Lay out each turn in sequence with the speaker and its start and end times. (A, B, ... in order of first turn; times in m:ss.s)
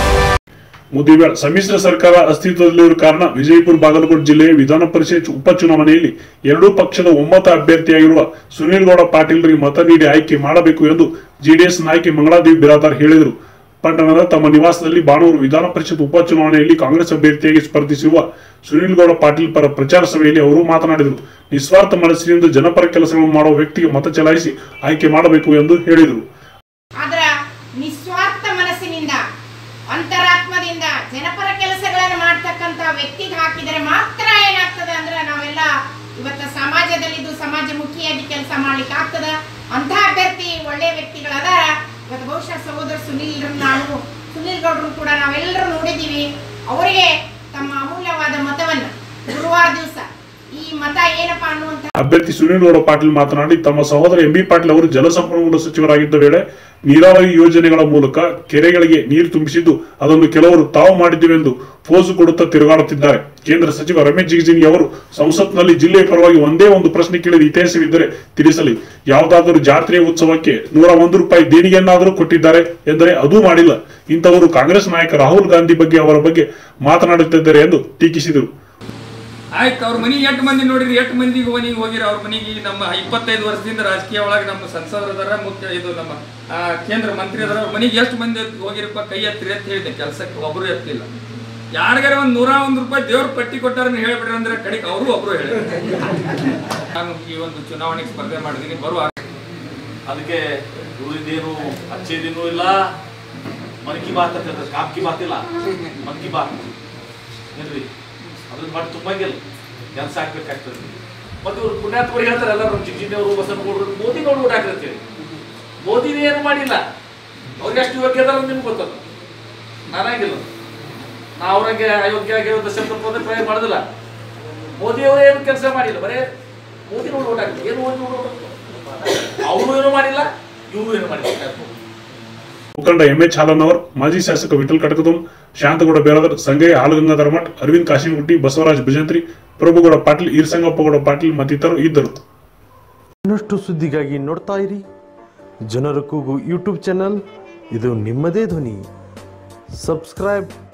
0:00.9-0:26.2 A
0:27.0-0:27.3 B
0:27.8-0:29.2 B
0:29.9-0:51.9 B
0:52.0-1:18.5 A
1:19.6-1:31.1 C
1:31.7-1:36.3 C
1:37.0-1:39.1 C
1:40.1-1:40.4 D
1:41.0-1:42.9 D
1:43.8-1:45.5 D
1:46.0-1:46.5 D
1:47.5-1:47.9 D
1:48.5-1:49.4 D
1:49.9-1:55.0 D
1:55.8-1:56.8 D
1:57.6-1:59.0 D
1:59.9-2:00.5 D
2:01.4-2:03.8 D
2:04.8-2:06.3 D
2:06.9-2:08.5 D
2:09.4-2:11.7 D
2:12.8-2:22.1 A
2:23.2-2:24.8 E
2:25.7-2:27.2 E
2:27.7-2:28.8 E
2:29.8-2:30.5 E